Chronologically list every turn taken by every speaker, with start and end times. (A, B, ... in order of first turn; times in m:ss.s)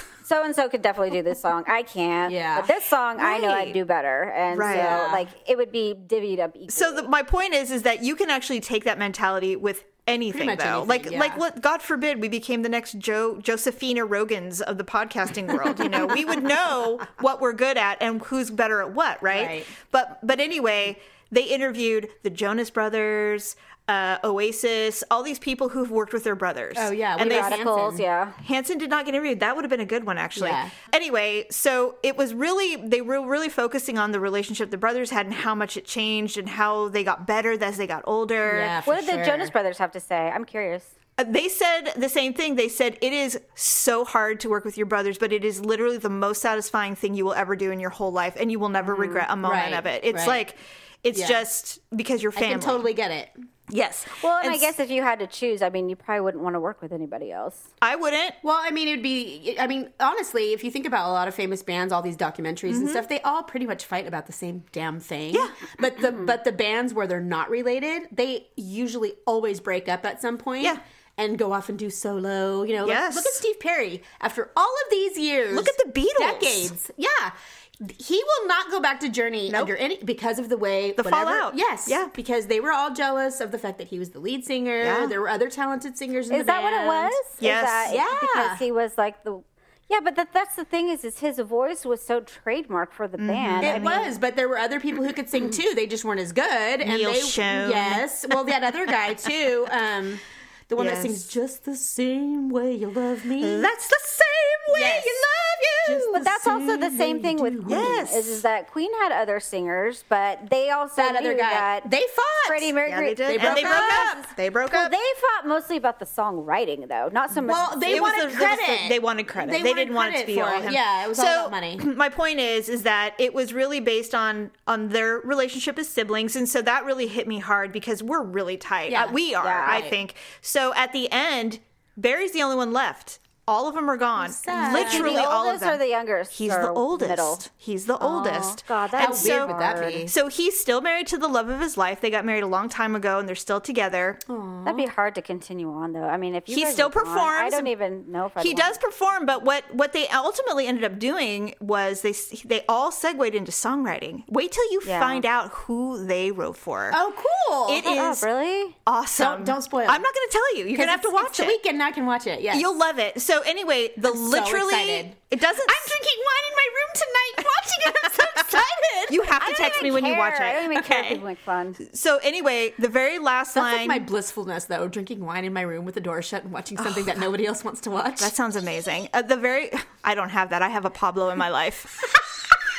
0:00.2-0:07.1 A
0:02.3-0:02.7 B
0:03.2-0:03.8 C
0:04.5-0:05.2 C
0:04.6-0:05.3 B
0:06.7-0:27.6 C
0:10.3-0:11.4 B
0:19.3-0:19.7 B
0:26.8-0:28.0 B
0:27.2-0:28.4 A
0:28.4-0:38.8 C
0:30.4-0:30.7 B
0:38.4-0:39.5 B
0:38.9-0:40.9 A
0:41.2-0:52.9 C
0:48.8-0:50.4 B
0:51.1-0:51.4 B
0:52.4-0:53.3 B
0:53.7-0:54.7 C
0:54.2-0:57.6 A
0:57.8-0:58.4 C
0:58.4-1:27.2 B
1:02.7-1:03.1 C
1:12.8-1:13.4 C
1:15.5-1:16.7 C
1:19.5-1:19.7 C
1:21.0-1:22.1 C
1:24.8-1:25.2 C
1:26.3-1:34.1 A
1:27.4-1:28.0 C
1:27.9-1:28.6 B
1:33.2-1:34.1 C
1:33.6-1:43.7 B
1:36.8-1:38.4 C
1:40.8-1:41.3 C
1:43.4-1:46.2 C
1:44.7-1:45.2 B
1:45.8-1:48.0 B
1:46.1-1:51.9 A
1:47.7-1:48.4 C
1:51.0-1:52.7 B
1:52.4-1:58.3 A
1:52.9-1:55.0 C
1:53.3-1:54.2 B
1:57.4-2:01.8 B
1:57.9-2:15.8 C
2:08.9-2:10.0 B
2:09.4-2:09.8 A
2:14.2-2:15.3 B
2:14.5-2:17.4 A
2:16.3-2:24.2 C
2:18.0-2:20.1 A
2:19.0-2:20.1 B
2:24.3-2:24.9 B
2:24.6-2:28.8 A
2:26.5-2:27.7 C
2:28.4-2:37.0 C
2:34.8-2:35.2 A
2:36.9-2:37.9 B
2:37.7-2:38.3 C
2:37.8-2:38.8 A
2:38.9-2:41.6 C
2:39.2-2:40.1 B
2:40.7-2:42.7 B
2:42.5-2:46.0 C
2:44.0-2:49.3 B
2:48.6-2:51.2 C
2:49.3-2:51.8 A
2:51.8-2:54.1 C
2:53.5-2:58.3 B
2:58.2-3:02.2 C